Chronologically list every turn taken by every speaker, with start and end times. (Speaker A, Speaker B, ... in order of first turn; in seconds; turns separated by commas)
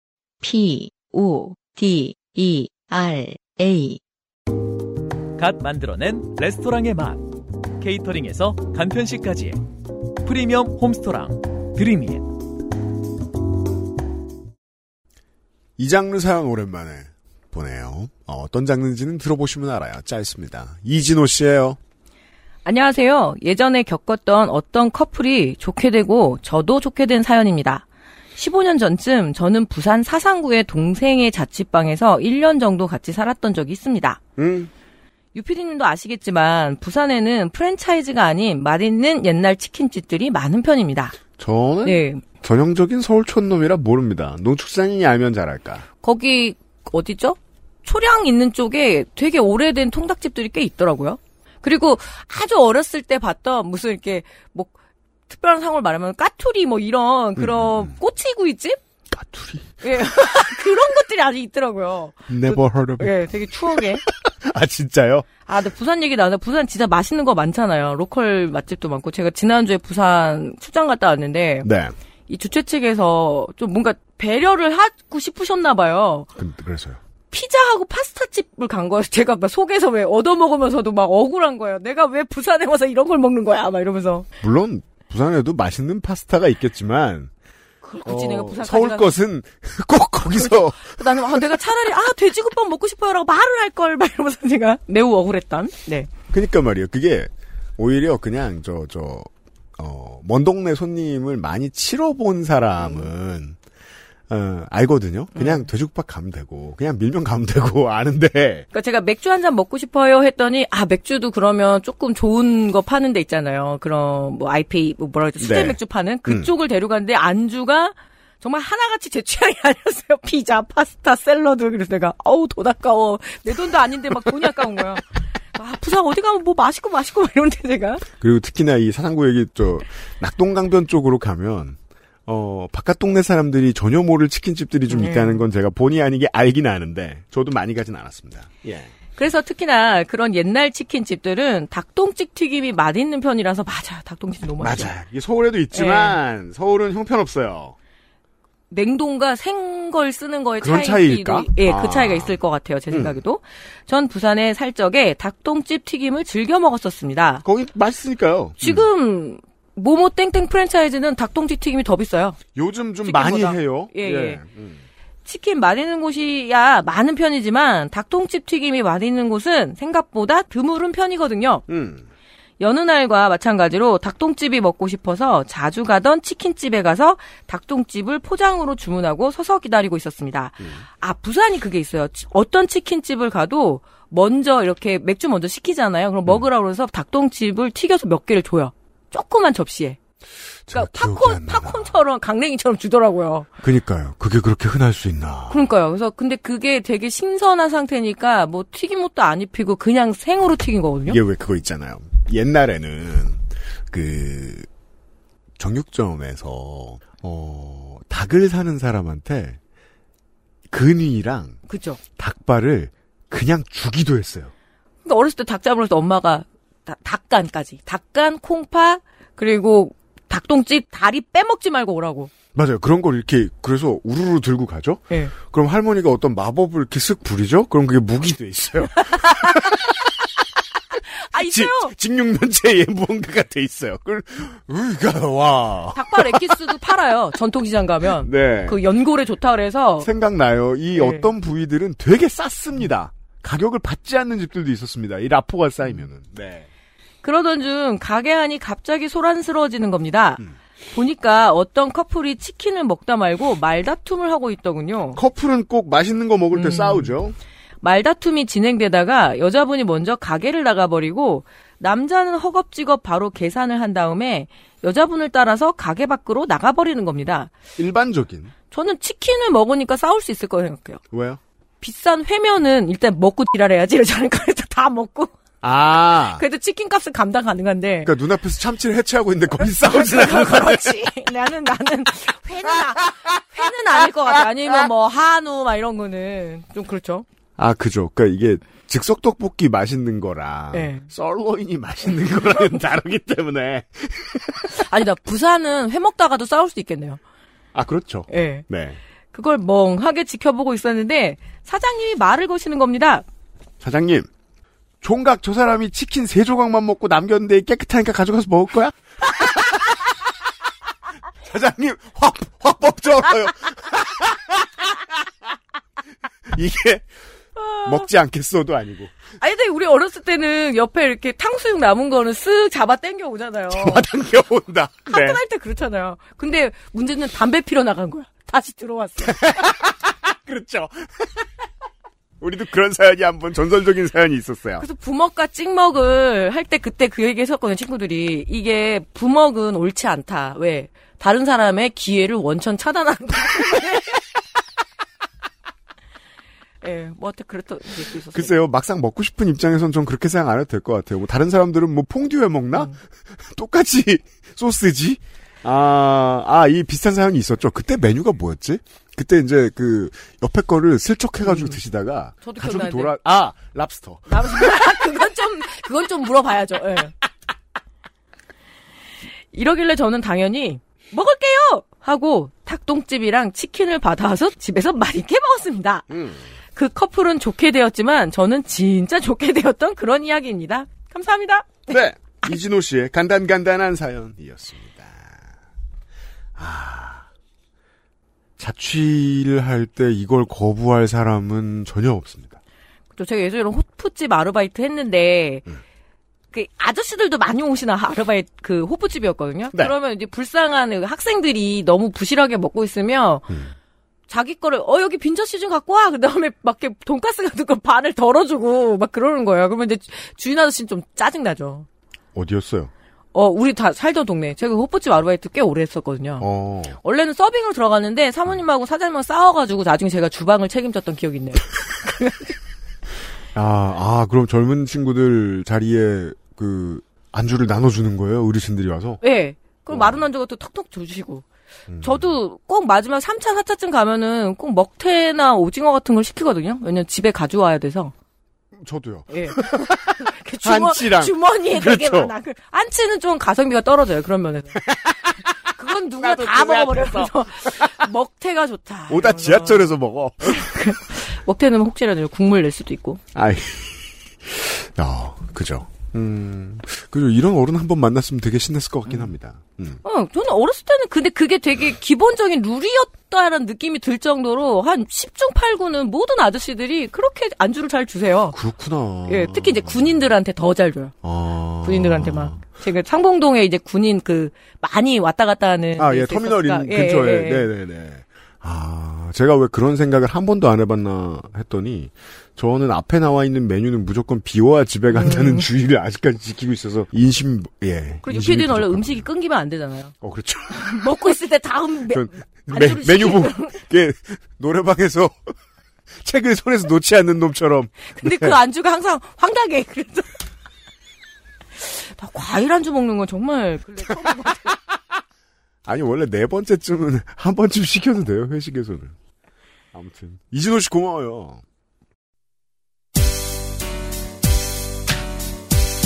Speaker A: 0.4-4.0, Speaker B: 5.4-9.6, Speaker B: 10.2-12.3, Speaker C: 15.8-21.8, Speaker D: 22.6-34.2, Speaker C: 34.4-34.7, Speaker D: 35.3-41.2, Speaker C: 41.4-45.8, Speaker D: 41.8-42.2, Speaker D: 46.0-54.7, Speaker D: 55.3-58.8, Speaker C: 57.4-57.9, Speaker C: 59.1-59.8, Speaker D: 59.8-64.0, Speaker C: 62.3-63.1, Speaker C: 64.0-65.3, Speaker D: 65.5-71.7, Speaker C: 71.6-71.9, Speaker D: 72.3-76.3, Speaker C: 76.4-77.0, Speaker D: 77.3-84.3, Speaker C: 84.4-87.3, Speaker D: 87.8-89.2, Speaker C: 88.0-91.5, Speaker D: 90.3-96.1, Speaker C: 96.3-103.5, Speaker C: 104.3-108.7, Speaker D: 105.3-105.7, Speaker D: 108.7-128.0, Speaker C: 115.4-116.5, Speaker C: 128.2-138.9, Speaker D: 134.9-135.4, Speaker D: 139.1-144.9, Speaker C: 144.6-147.7, Speaker D: 145.7-146.2, Speaker D: 148.7-157.4, Speaker C: 150.6-152.4, Speaker C: 152.9-153.2, Speaker C: 157.4-158.9, Speaker D: 158.6-162.4, Speaker C: 162.5-164.8, Speaker D: 163.0-164.4, Speaker D: 165.2-171.6, Speaker C: 171.7-172.1, Speaker D: 172.6-190.0, Speaker C: 190.7-192.0, Speaker D: 190.7-193.5, Speaker C: 193.6-195.6, Speaker D: 195.5-201.2, Speaker C: 201.1-204.7, Speaker C: 205.6-209.6, Speaker C: 210.7-211.6, Speaker D: 211.7-212.0, Speaker C: 212.2-214.5, Speaker D: 215.0-222.3, Speaker C: 222.5-229.9, Speaker D: 229.1-229.8, Speaker D: 231.2-231.9, Speaker C: 231.3-236.6, Speaker D: 235.9-240.1, Speaker C: 238.2-238.8, Speaker C: 240.0-246.7, Speaker D: 240.9-241.3, Speaker D: 247.2-255.2, Speaker C: 255.2-257.3, Speaker D: 256.5-257.1, Speaker D: 257.8-267.5, Speaker C: 267.8-268.5, Speaker D: 268.7-271.0, Speaker C: 271.1-271.4, Speaker D: 271.8-275.3, Speaker C: 275.6-276.4, Speaker D: 276.2-278.1, Speaker C: 278.0-281.1, Speaker D: 279.8-287.2, Speaker C: 287.6-294.7, Speaker D: 290.7-291.1, Speaker D: 294.7-297.2, Speaker C: 297.7-299.0, Speaker D: 298.3-298.6, Speaker D: 299.3-303.2, Speaker C: 303.8-304.3, Speaker C: 305.0-310.0, Speaker C: 311.4-315.2, Speaker C: 316.5-317.1, Speaker D: 317.6-317.9, Speaker C: 317.8-319.1, Speaker D: 319.4-324.1, Speaker C: 323.7-325.4, Speaker D: 325.1-329.4, Speaker C: 329.2-331.4, Speaker C: 332.4-334.8, Speaker D: 334.8-344.2, Speaker D: 346.8-348.6, Speaker C: 348.3-365.1, Speaker D: 362.4-363.1, Speaker D: 364.3-367.1, Speaker D: 369.5-376.1, Speaker C: 376.1-376.4, Speaker D: 376.7-382.0, Speaker C: 381.9-385.4, Speaker C: 386.6-387.3, Speaker C: 388.6-392.6, Speaker D: 393.1-395.7, Speaker D: 396.5-403.5, Speaker D: 404.3-411.9, Speaker C: 412.3-412.9, Speaker D: 413.3-416.5, Speaker C: 416.4-417.0, Speaker D: 417.0-422.6, Speaker C: 423.5-429.2, Speaker D: 429.2-431.4, Speaker C: 429.9-430.2, Speaker C: 431.9-432.3, Speaker D: 432.0-438.1, Speaker C: 438.8-440.0, Speaker D: 439.3-444.8, Speaker C: 440.6-442.3, Speaker C: 444.9-445.2, Speaker D: 445.6-453.2, Speaker C: 446.2-448.0, Speaker C: 449.1-450.7, Speaker C: 453.3-460.0, Speaker D: 460.0-468.6, Speaker C: 468.5-470.2, Speaker D: 469.3-471.1, Speaker C: 471.2-472.6, Speaker D: 471.8-477.7, Speaker C: 476.0-489.3, Speaker D: 485.1-485.7, Speaker D: 488.2-490.1, Speaker C: 490.2-491.1, Speaker D: 490.7-493.8, Speaker C: 492.1-495.5, Speaker C: 496.2-498.6, Speaker D: 498.1-500.3, Speaker D: 501.8-504.8, Speaker C: 505.9-509.1, Speaker C: 509.9-511.6